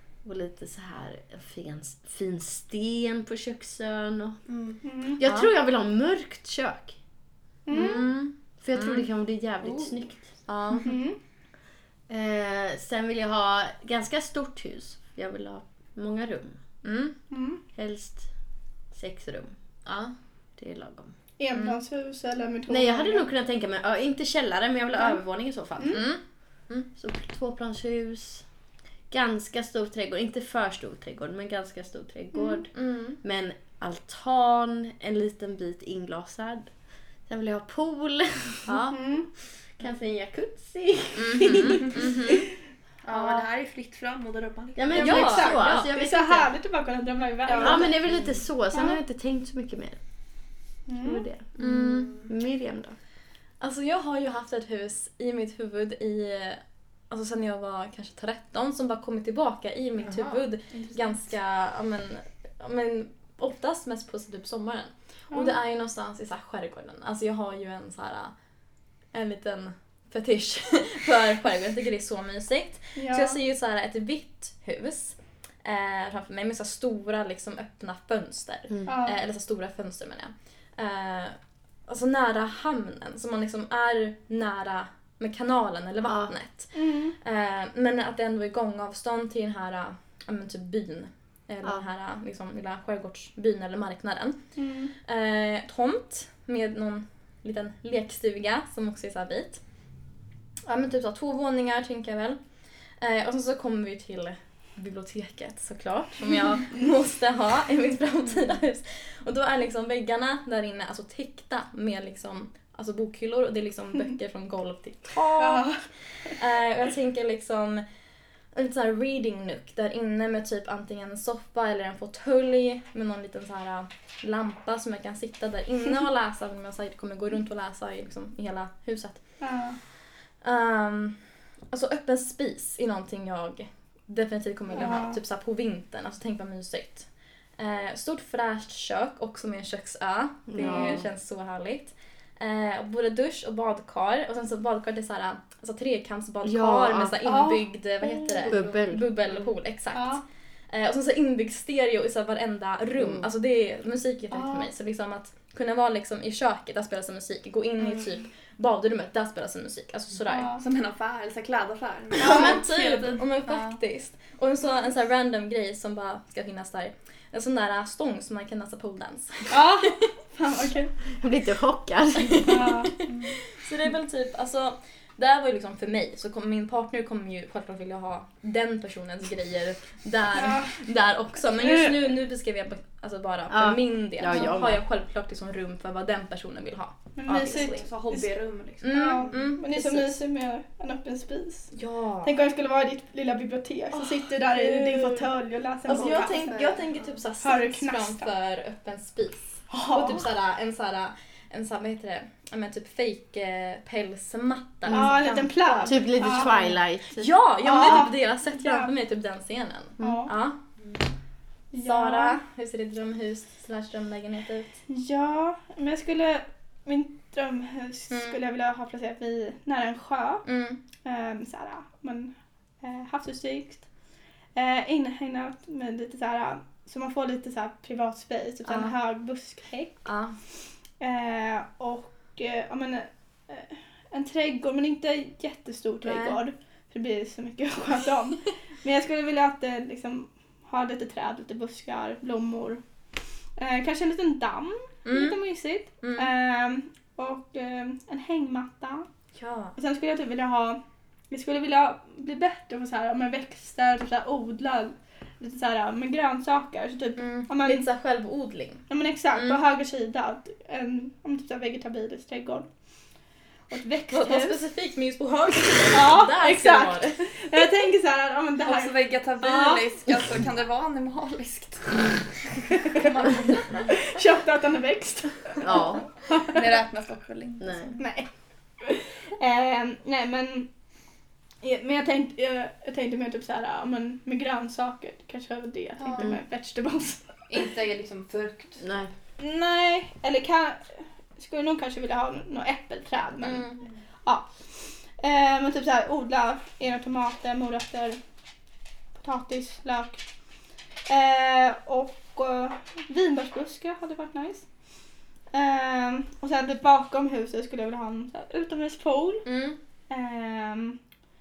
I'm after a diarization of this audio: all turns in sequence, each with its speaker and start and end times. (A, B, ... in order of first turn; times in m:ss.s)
0:00.2-0:04.4 A
0:04.5-0:04.8 B
0:04.8-0:05.2 C
0:05.1-0:07.0 A
0:05.2-0:05.5 D
0:07.7-0:08.0 C
0:07.7-0:09.1 D
0:08.4-0:10.4 A
0:09.6-0:10.9 B
0:10.5-0:10.9 D
0:10.8-0:11.2 C
0:12.1-0:16.8 A
0:16.8-0:17.2 D
0:17.3-0:17.6 C
0:17.7-0:19.6 A
0:19.8-0:20.2 D
0:20.6-0:21.2 A
0:21.4-0:23.3 C
0:21.5-0:21.8 D
0:22.7-0:26.2 A
0:25.0-0:26.0 C
0:25.9-0:26.9 D
0:27.0-0:28.6 A
0:29.1-0:38.8 A
0:32.3-0:32.6 C
0:32.7-0:33.2 D
0:38.7-0:39.0 D
0:38.9-0:39.3 C
0:39.6-0:42.4 A
0:41.2-0:42.4 D
0:43.0-0:45.3 B
0:43.1-0:43.4 D
0:44.8-0:46.6 A
0:44.9-0:48.0 C
0:44.9-0:45.9 D
0:47.5-0:47.9 D
0:47.5-0:48.4 B
0:47.6-0:53.0 A
0:48.7-0:49.0 C
0:50.9-0:51.3 C
0:51.6-0:52.1 D
0:51.6-0:52.3 B
0:53.6-1:08.4 D
1:00.0-1:01.3 B
1:05.3-1:05.6 C
1:09.1-1:40.0 D
1:13.0-1:13.4 C
1:18.7-1:19.0 A
1:18.9-1:19.2 C
1:26.0-1:26.4 A
1:26.7-1:27.2 C
1:34.6-1:34.9 C
1:40.6-1:57.9 D
1:55.4-1:56.3 C
1:58.5-2:09.9 D
2:09.4-2:09.8 C
2:10.4-2:40.6 D
2:14.7-2:15.0 B
2:14.8-2:15.2 C
2:20.5-2:21.1 A
2:20.6-2:21.0 C
2:26.4-2:27.4 A
2:27.3-2:28.6 C
2:28.5-2:29.1 A
2:29.9-2:30.2 C
2:33.0-2:33.3 A
2:34.3-2:34.7 C
2:40.3-2:40.6 C
2:40.6-2:43.8 B
2:42.2-2:42.6 C
2:42.2-2:49.6 D
2:49.5-2:51.0 C
2:51.2-2:52.8 A
2:52.5-2:52.9 C
2:53.0-2:53.4 B
2:53.5-3:07.9 D
3:00.4-3:02.2 C
3:03.5-3:04.8 A
3:07.2-3:16.8 C
3:07.3-3:09.6 B
3:08.8-3:10.2 D
3:11.7-3:12.3 D
3:13.9-3:15.3 D
3:15.8-3:30.6 D
3:15.9-3:17.2 B
3:17.4-3:18.3 C
3:19.7-3:20.2 C
3:24.9-3:27.3 A
3:24.9-3:26.7 C
3:27.6-3:28.9 C
3:30.0-3:30.3 A
3:30.0-3:30.3 C
3:30.8-3:31.1 B
3:31.7-3:32.4 C
3:31.8-3:34.8 D
3:34.9-4:09.1 C
3:38.1-3:38.4 D
3:40.4-3:40.8 D
3:48.7-3:49.0 D
3:50.0-3:50.4 D
3:56.0-3:56.4 D
4:05.1-4:05.4 D
4:06.0-4:06.3 D
4:09.4-4:09.8 D
4:09.8-4:10.8 C
4:11.3-4:17.9 C
4:17.2-4:19.6 D
4:18.9-4:24.6 C
4:24.1-4:27.3 D
4:25.9-4:30.1 C
4:28.6-4:34.0 B
4:34.0-4:36.7 C
4:35.6-4:36.1 A
4:36.4-4:38.1 B
4:37.6-4:38.0 A
4:38.0-4:40.7 C
4:41.6-4:47.7 C
4:46.0-4:46.3 B
4:46.2-4:46.4 A
4:47.5-4:48.9 B
4:48.8-4:49.1 A
4:49.4-4:58.2 C
4:53.4-4:53.8 D
4:59.2-5:09.5 C
5:09.4-5:09.8 D
5:10.1-5:11.0 C